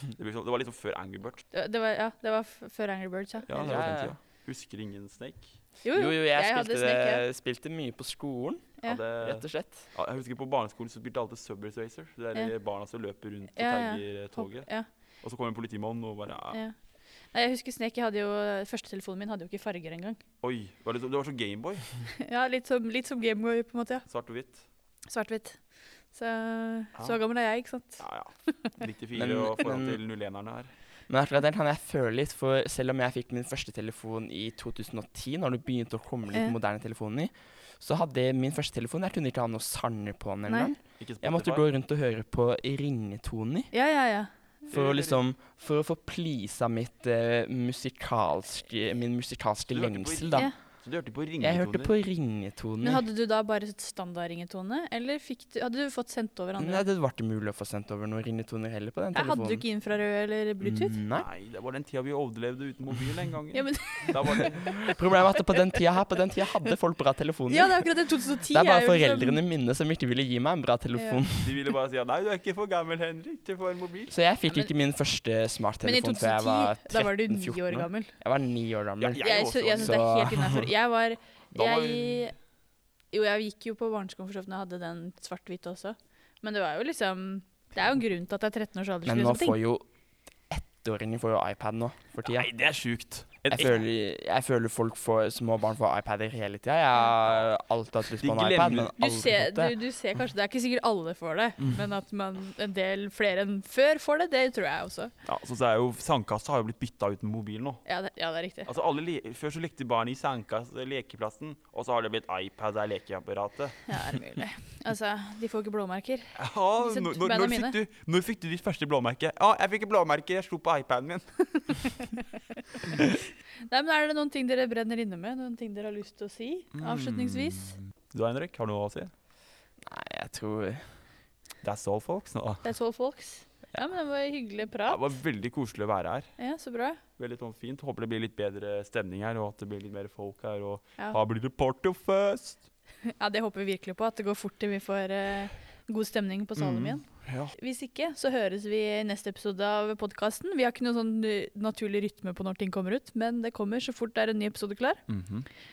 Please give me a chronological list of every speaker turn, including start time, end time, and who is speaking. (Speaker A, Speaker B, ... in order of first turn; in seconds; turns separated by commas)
Speaker A: 0.1-1.4, Speaker B: 1.5-3.7, Speaker A: 3.5-5.6, Speaker C: 3.6-4.2, Speaker B: 5.8-7.2, Speaker C: 5.9-9.9, Speaker A: 8.8-14.7, Speaker B: 13.6-14.9, Speaker A: 15.2-16.6, Speaker B: 17.3-20.2, Speaker A: 20.4-21.9, Speaker B: 22.1-24.1, Speaker A: 24.1-24.6, Speaker B: 25.1-25.6, Speaker B: 26.1-28.8, Speaker A: 27.0-27.2, Speaker A: 28.0-30.7, Speaker C: 29.1-30.0, Speaker C: 31.1-43.7, Speaker B: 40.5-40.8, Speaker A: 41.0-41.7, Speaker B: 43.7-44.3, Speaker C: 44.7-50.5, Speaker A: 44.7-45.2, Speaker A: 49.7-51.9, Speaker C: 51.4-53.0, Speaker B: 52.8-56.8, Speaker C: 56.6-59.6, Speaker B: 59.1-61.0, Speaker C: 60.6-61.3, Speaker A: 61.2-65.0, Speaker B: 63.5-64.9, Speaker C: 64.8-67.9, Speaker B: 67.5-69.4, Speaker C: 68.5-71.7, Speaker B: 70.9-71.2, Speaker A: 71.4-74.1, Speaker C: 74.1-79.2, Speaker B: 75.8-78.1, Speaker A: 79.0-80.4, Speaker B: 79.2-82.3, Speaker C: 79.8-80.7, Speaker A: 81.5-82.3, Speaker B: 83.1-89.6, Speaker C: 89.1-89.9, Speaker C: 90.5-92.5, Speaker A: 92.2-93.8, Speaker C: 93.5-99.8, Speaker A: 98.2-98.9, Speaker B: 99.0-105.1, Speaker A: 105.2-107.8, Speaker B: 107.9-108.7, Speaker A: 108.7-113.9, Speaker B: 113.9-117.8, Speaker A: 116.4-121.9, Speaker B: 121.8-123.2, Speaker B: 123.7-127.8, Speaker A: 126.7-129.1, Speaker C: 129.8-130.9, Speaker A: 131.6-132.7, Speaker B: 132.6-135.0, Speaker A: 134.9-136.3, Speaker B: 136.4-137.0, Speaker A: 137.2-142.7, Speaker B: 143.1-155.0, Speaker A: 146.6-147.5, Speaker A: 155.1-155.5